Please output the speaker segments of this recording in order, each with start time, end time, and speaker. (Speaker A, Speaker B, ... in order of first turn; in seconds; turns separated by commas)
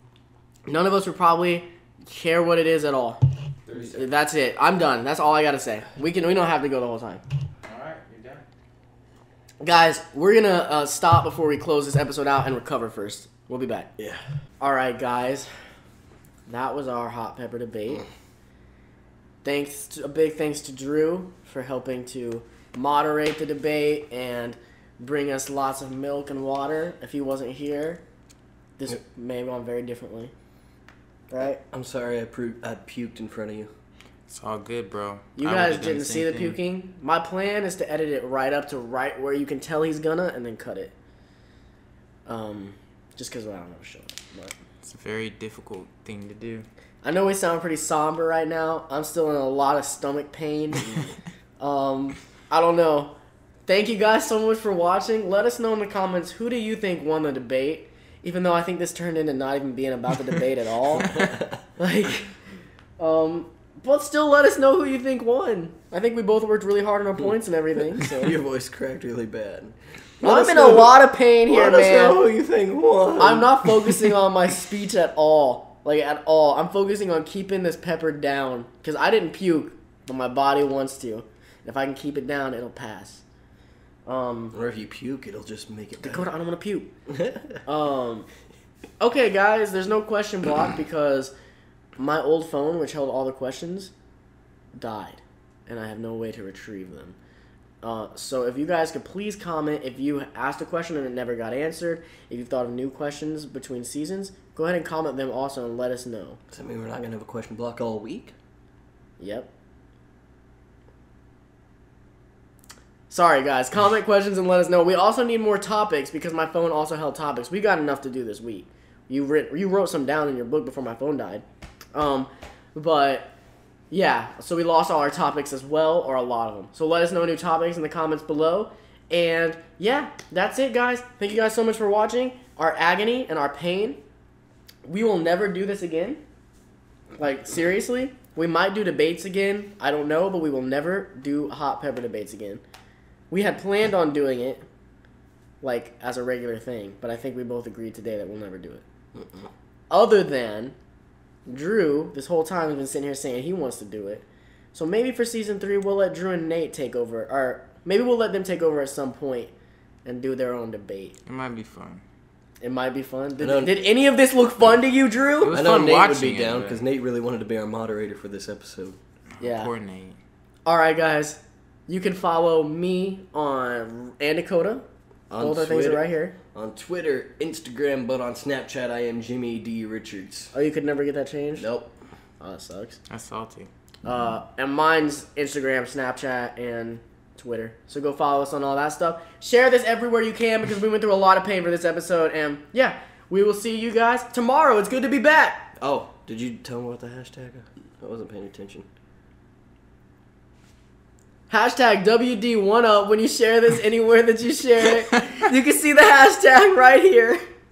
Speaker A: 0.7-3.2, Speaker B: 3.6-4.1, Speaker A: 3.9-7.2, Speaker B: 7.6-8.4, Speaker A: 9.6-13.9, Speaker A: 14.6-15.5, Speaker A: 16.4-18.0, Speaker A: 19.4-28.0, Speaker A: 28.8-30.3, Speaker A: 31.3-31.6, Speaker C: 31.7-33.7, Speaker B: 34.3-36.6, Speaker A: 35.4-40.9, Speaker A: 42.2-44.5, Speaker B: 44.8-46.7, Speaker A: 47.0-53.1, Speaker A: 53.7-61.1, Speaker A: 61.8-62.3, Speaker A: 63.0-68.3, Speaker C: 68.0-71.0, Speaker A: 70.2-72.2, Speaker C: 71.5-74.1, Speaker A: 73.2-83.2, Speaker A: 84.0-84.5, Speaker C: 84.5-86.3, Speaker A: 86.0-86.9, Speaker A: 87.7-88.3, Speaker A: 89.0-91.3, Speaker A: 92.0-93.9, Speaker A: 94.8-97.2, Speaker A: 97.8-106.4, Speaker C: 106.5-108.3, Speaker A: 109.2-109.5, Speaker A: 113.1-123.3, Speaker A: 123.9-134.0, Speaker A: 134.8-136.2, Speaker A: 137.2-142.6, Speaker A: 143.3-144.6, Speaker A: 145.6-148.8, Speaker C: 149.2-149.4, Speaker A: 149.9-150.7, Speaker A: 151.4-159.5, Speaker A: 160.0-161.2, Speaker B: 161.2-162.0, Speaker A: 162.6-165.6, Speaker C: 163.4-163.8, Speaker B: 165.4-166.8, Speaker C: 165.4-169.0, Speaker B: 169.3-170.2, Speaker A: 169.4-169.7, Speaker A: 170.7-174.8, Speaker C: 175.3-180.5, Speaker A: 175.4-176.3, Speaker A: 180.5-181.7, Speaker C: 181.6-181.9, Speaker A: 182.4-183.0, Speaker B: 183.1-183.7, Speaker A: 184.0-195.7, Speaker C: 195.8-198.8, Speaker A: 201.5-207.4